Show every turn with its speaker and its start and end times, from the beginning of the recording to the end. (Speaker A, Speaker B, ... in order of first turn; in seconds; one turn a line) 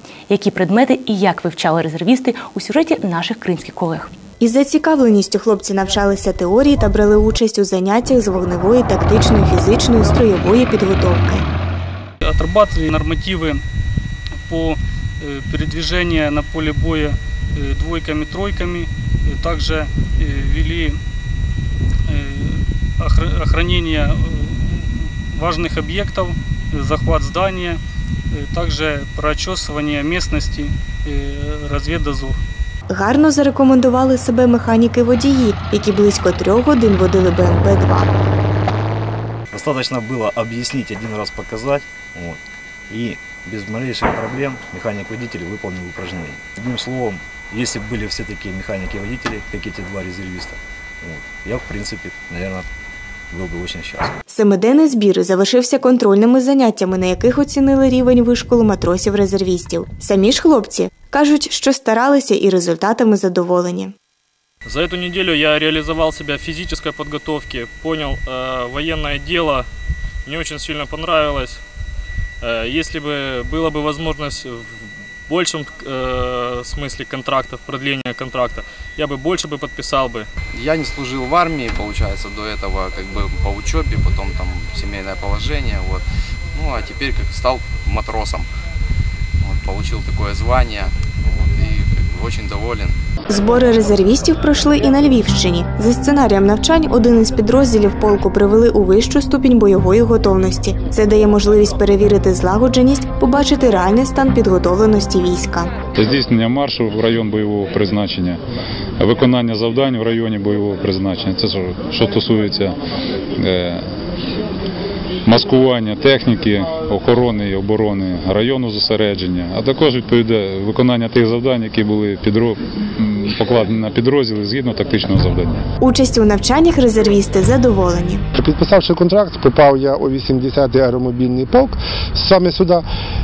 Speaker A: 0.3-4.1
Speaker B: 4.4-11.4
Speaker C: 12.2-13.6
Speaker C: 14.5-21.0
Speaker C: 22.1-27.8
Speaker C: 28.3-32.4
Speaker B: 32.9-38.1
Speaker D: 39.5-42.4
Speaker D: 42.9-52.7
Speaker D: 53.3-54.2
Speaker B: 54.3-63.9
Speaker E: 64.7-69.7
Speaker E: 70.2-71.6
Speaker E: 72.4-80.3
Speaker F: 80.5-88.5
Speaker F: 89.4-93.0
Speaker B: 93.3-105.7
Speaker G: 106.0-108.4
Speaker G: 109.0-112.8
Speaker G: 113.4-113.8
Speaker G: 115.3-125.7
Speaker B: 125.8-128.2
Speaker H: 128.3-132.9